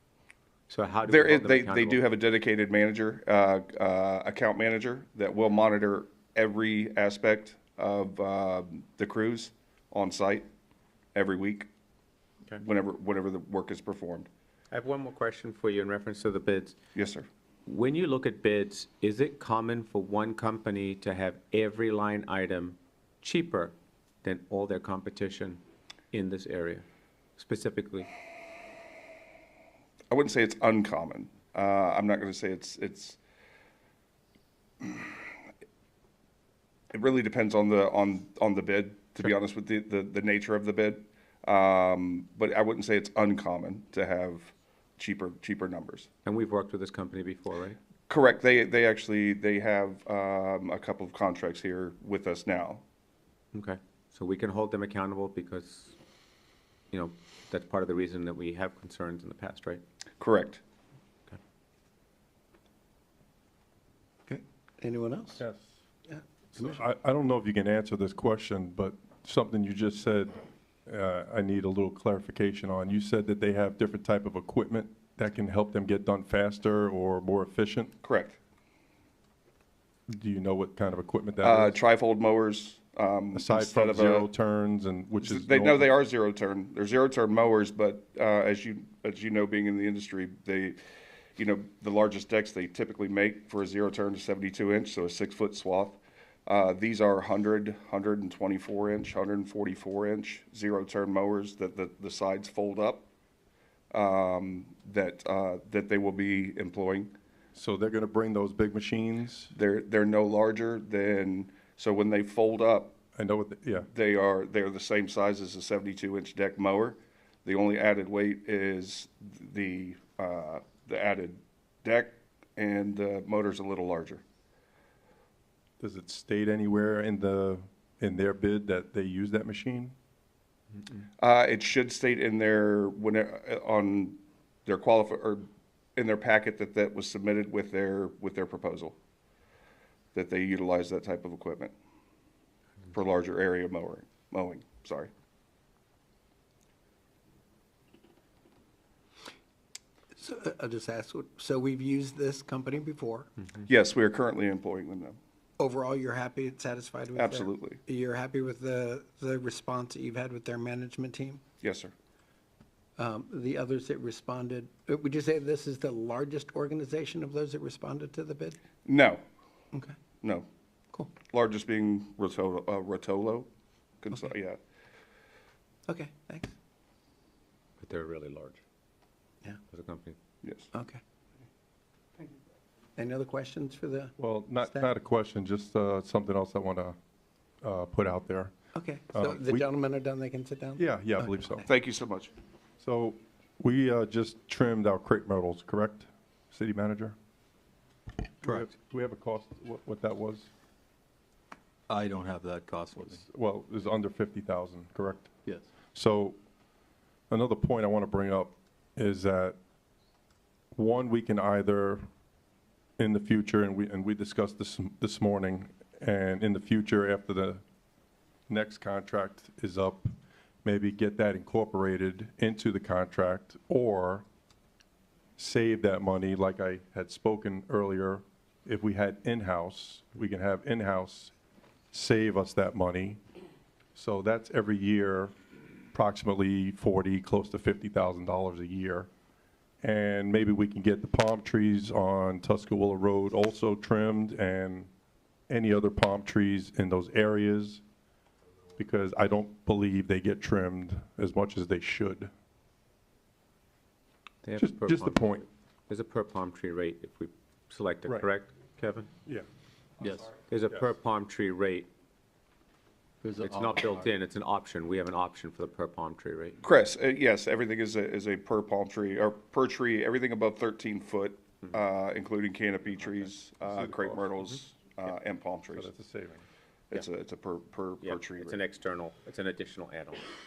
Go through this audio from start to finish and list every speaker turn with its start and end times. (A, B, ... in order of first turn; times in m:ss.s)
0:00.7-0:02.0 A
0:01.1-0:10.5 B
0:11.1-0:11.7 B
0:12.6-0:14.3 B
0:14.7-0:16.8 A
0:16.9-0:17.3 B
0:17.6-0:25.6 A
0:26.1-0:28.1 A
0:30.1-0:33.2 B
0:34.8-0:35.2 B
0:36.9-0:46.1 B
0:46.2-0:47.8 A
0:48.1-0:52.8 B
0:53.5-0:56.0 A
0:56.9-0:59.8 A
1:00.2-1:00.6 B
1:04.3-1:05.4 C
1:05.4-1:05.7 D
1:06.5-1:10.4 D
1:10.9-1:17.9 D
1:18.0-1:18.4 B
1:20.1-1:21.8 D
1:21.4-1:24.3 B
1:23.3-1:25.9 D
1:25.2-1:30.8 B
1:31.4-1:43.1 B
1:43.9-1:47.1 B
1:47.6-1:49.5 D
1:49.5-1:53.0 B
1:53.2-1:53.9 D
1:53.9-2:04.2 B
2:05.8-2:09.9 D
2:11.2-2:19.0 B
2:20.1-2:21.7 B
2:22.9-2:25.1 B
2:30.2-2:33.3 C
2:33.6-2:35.2 B
2:35.6-2:41.4 C
2:37.1-2:37.8 B
2:41.6-2:41.9 B
2:43.0-2:48.6 C
2:48.8-2:49.2 B
2:51.2-2:53.5 B
2:54.0-2:54.6 B
2:55.9-2:56.5 C
2:57.8-2:58.6 A
2:59.7-3:00.2 A
3:00.4-3:00.7 B
3:00.7-3:01.0 C
3:03.0-3:04.9 C
3:04.2-3:07.0 D
3:07.6-3:08.5 D
3:08.7-3:11.7 C
3:09.1-3:09.6 D
3:10.8-3:11.6 D
3:11.7-3:12.3 B
3:12.8-3:17.2 D
3:18.4-3:20.5 D
3:21.9-3:23.2 E
3:23.1-3:25.3 D
3:25.9-3:26.4 D
3:27.3-3:29.6 D
3:30.7-3:32.0 D
3:33.0-3:37.6 D
3:38.5-3:40.1 D
3:40.6-3:44.2 D
3:45.4-3:51.3 D
3:51.9-3:53.2 D
3:53.9-3:55.3 D
3:55.9-3:59.1 D
3:59.8-4:04.9 D
4:05.5-4:07.8 D
4:08.8-4:12.3 D
4:14.4-4:19.1 A
4:14.6-4:15.4 D
4:20.0-4:20.4 E
4:20.4-4:21.9 A
4:23.2-4:24.1 E
4:23.4-4:26.6 A
4:26.6-4:35.9 B
4:33.7-4:34.5 D
4:35.7-4:36.4 D
4:36.9-4:38.6 B
4:38.0-4:40.3 A